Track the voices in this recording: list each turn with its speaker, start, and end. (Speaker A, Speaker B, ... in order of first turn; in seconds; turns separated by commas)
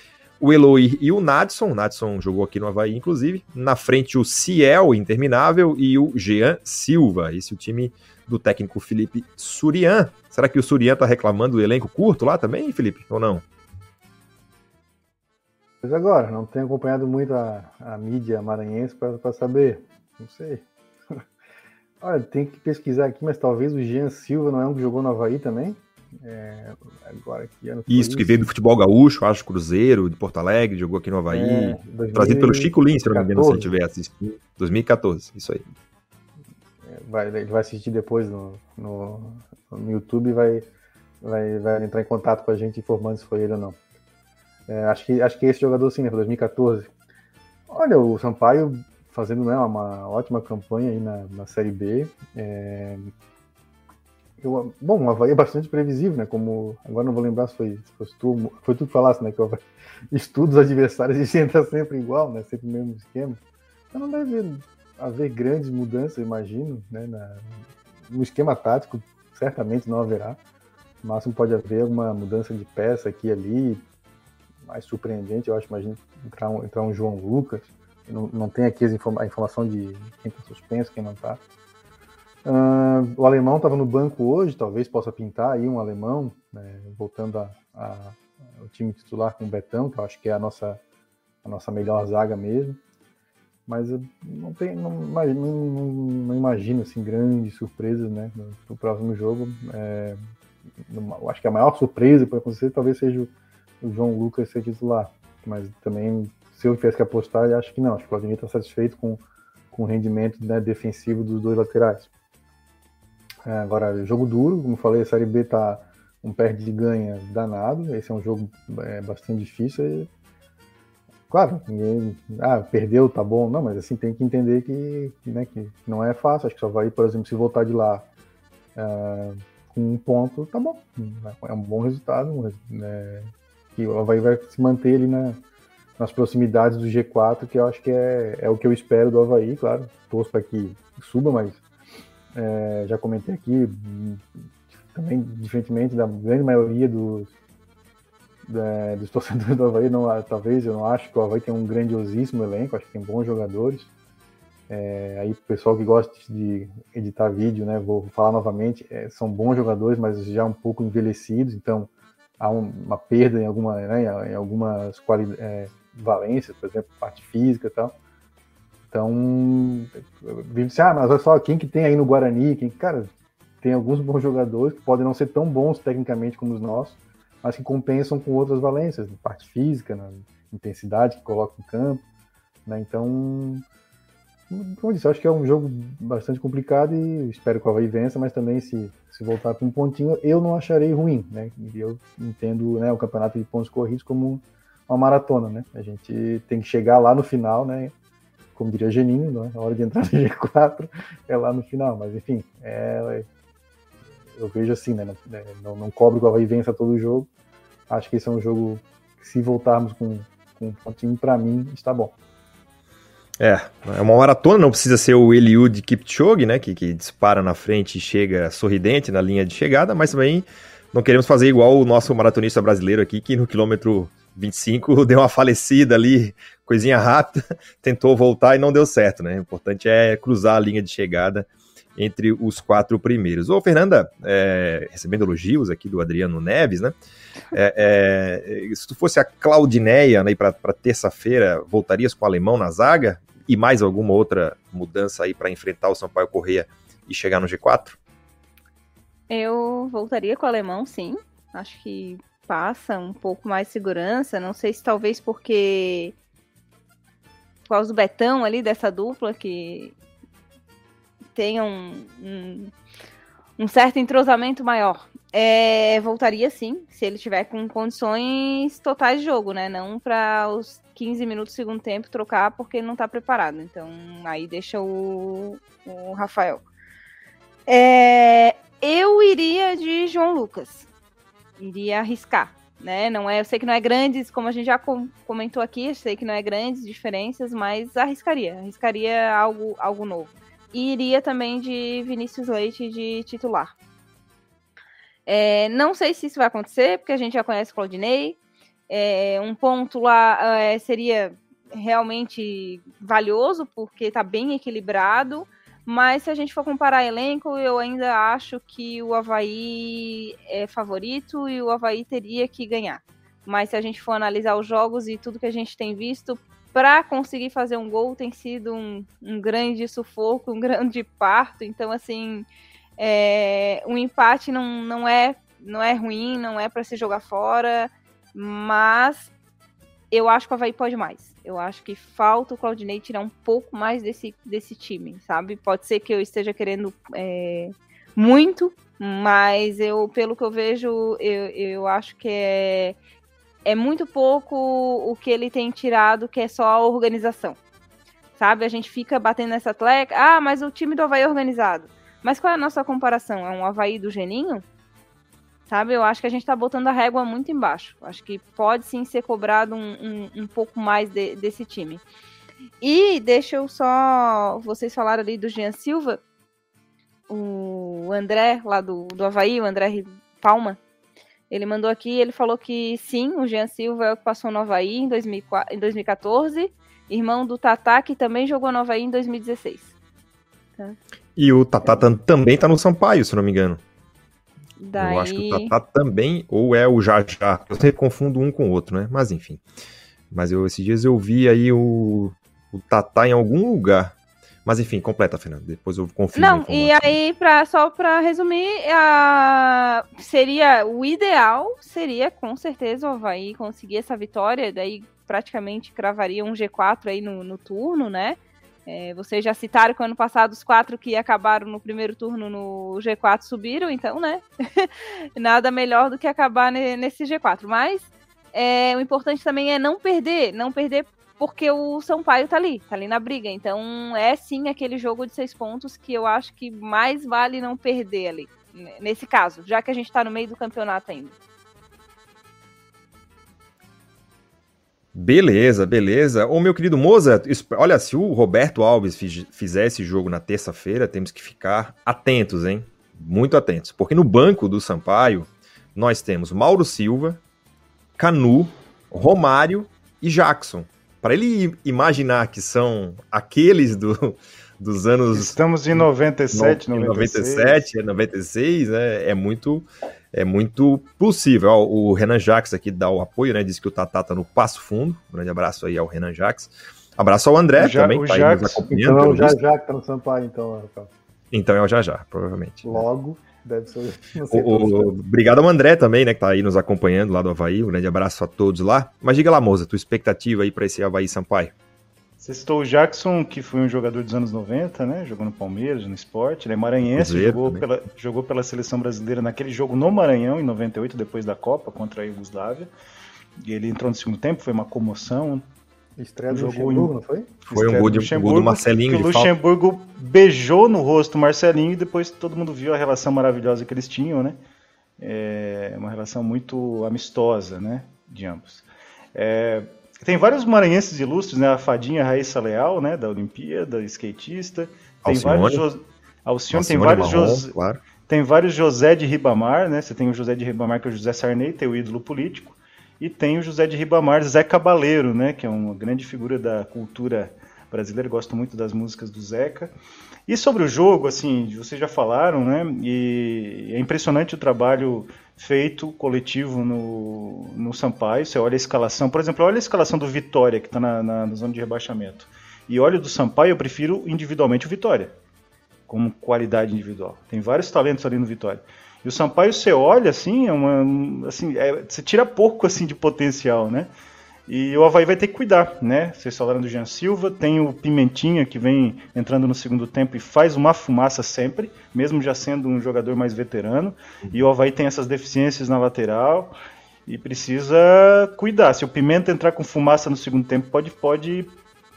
Speaker A: 0.4-13.4, Speaker B: 15.8-21.2, Speaker B: 22.0-28.4, Speaker A: 27.9-35.6, Speaker B: 31.3-33.8, Speaker B: 36.8-40.7, Speaker B: 41.2-43.8, Speaker B: 44.7-46.9, Speaker B: 47.7-53.1, Speaker B: 54.4-63.4, Speaker B: 63.9-67.5, Speaker B: 68.1-70.4, Speaker B: 71.0-73.8, Speaker B: 74.6-81.4, Speaker B: 82.4-90.8, Speaker B: 91.4-92.8, Speaker B: 93.7-100.2, Speaker B: 100.8-112.1, Speaker B: 113.4-120.1, Speaker B: 121.3-128.0, Speaker B: 128.7-135.4, Speaker B: 136.0-141.6, Speaker B: 142.3-147.3, Speaker B: 148.4-153.9, Speaker B: 154.7-167.9, Speaker B: 168.9-173.1, Speaker B: 173.6-182.0, Speaker B: 182.7-183.6, Speaker B: 184.5-197.9, Speaker B: 198.5-203.3, Speaker B: 204.3-207.3, Speaker B: 207.9-212.1, Speaker A: 213.4-236.9, Speaker A: 237.5-248.0, Speaker C: 249.3-256.1, Speaker C: 257.7-259.9, Speaker C: 261.3-262.7, Speaker C: 263.6-276.6, Speaker C: 277.7-280.9, Speaker C: 281.6-293.7, Speaker C: 295.3-298.4, Speaker C: 298.9-322.4, Speaker C: 323.0-329.3, Speaker C: 330.1-343.0, Speaker C: 343.6-347.6, Speaker C: 348.4-354.6, Speaker C: 355.7-362.0, Speaker C: 362.8-366.2, Speaker C: 367.3-370.8, Speaker C: 371.5-379.9, Speaker A: 381.4-383.8, Speaker C: 384.8-385.7, Speaker A: 384.9-389.6, Speaker A: 390.3-394.1, Speaker A: 394.6-397.2, Speaker C: 396.3-431.3, Speaker A: 435.1-447.4, Speaker A: 448.2-469.6, Speaker D: 455.3-457.9, Speaker D: 467.8-468.9, Speaker B: 468.9-471.1, Speaker A: 471.5-473.0, Speaker B: 472.8-475.1, Speaker A: 474.5-481.7, Speaker D: 482.4-492.9, Speaker A: 487.1-487.8, Speaker D: 493.6-495.6, Speaker B: 496.2-497.5, Speaker D: 496.5-497.1, Speaker D: 497.6-504.6, Speaker A: 497.7-499.5, Speaker D: 505.2-517.7, Speaker A: 515.2-515.8, Speaker A: 516.7-518.0, Speaker D: 518.2-529.9, Speaker D: 530.5-545.3, Speaker D: 546.1-554.1, Speaker D: 554.7-566.7, Speaker D: 567.3-571.7